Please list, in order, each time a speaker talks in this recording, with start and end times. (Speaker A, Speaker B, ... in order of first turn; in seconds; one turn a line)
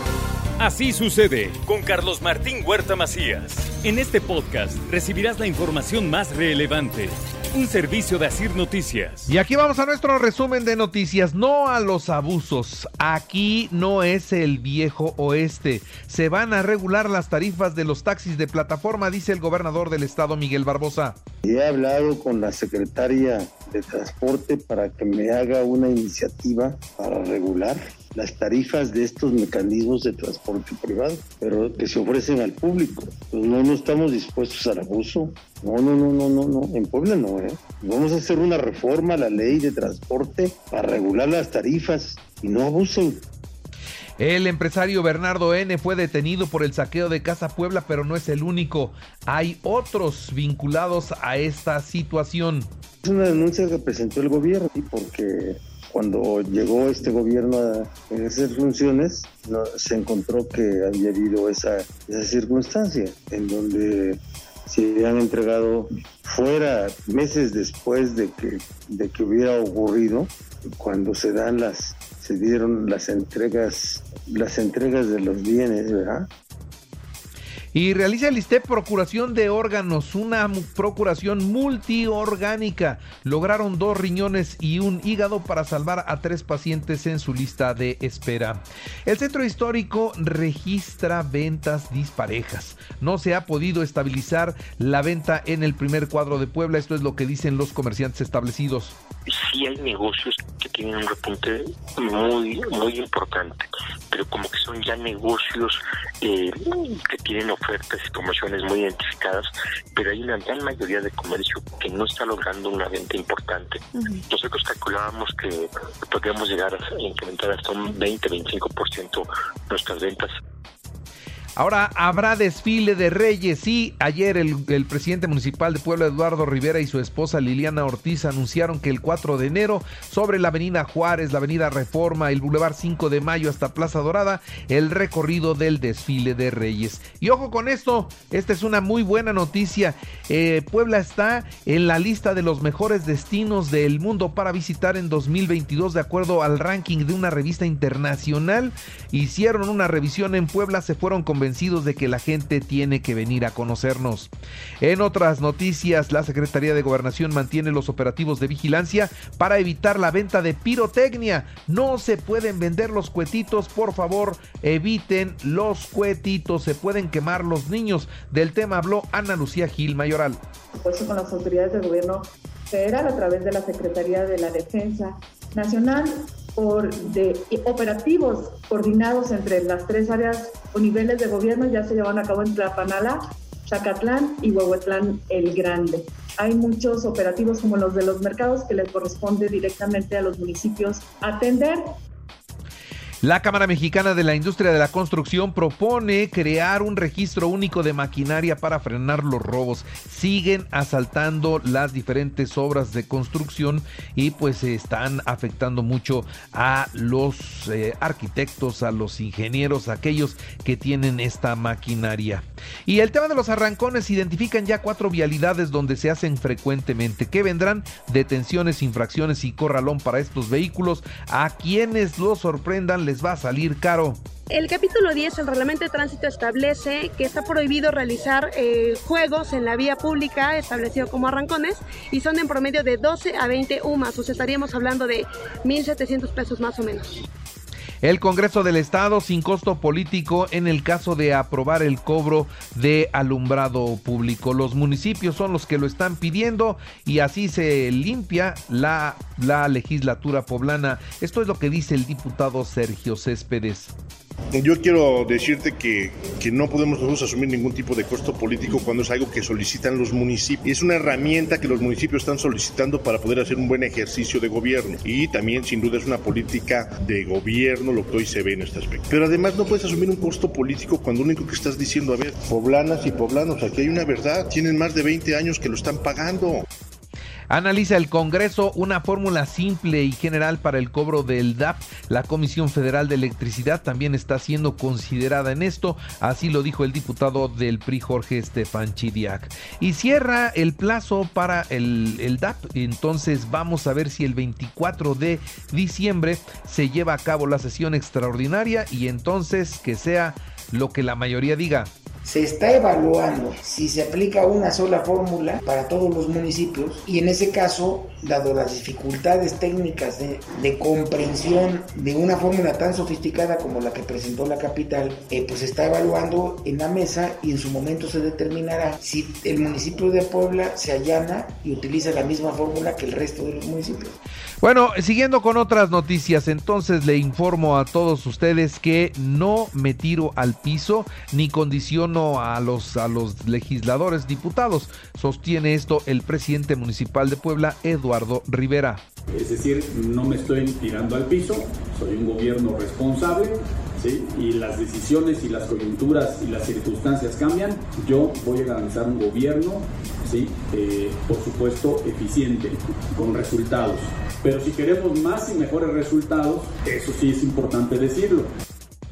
Speaker A: 0.6-9.3
Speaker B: 9.3-21.2
Speaker C: 21.4-43.2
Speaker B: 44.2-52.7
Speaker C: 53.0-76.3
Speaker B: 77.7-99.0
Speaker D: 99.3-120.3
Speaker B: 121.6-170.4
Speaker E: 170.7-192.0
Speaker B: 193.2-224.2
Speaker F: 224.5-237.2
Speaker B: 238.0-253.9
Speaker G: 254.5-276.6
Speaker B: 277.5-301.9
Speaker H: 302.2-324.1
Speaker B: 324.6-339.0
Speaker I: 339.3-358.5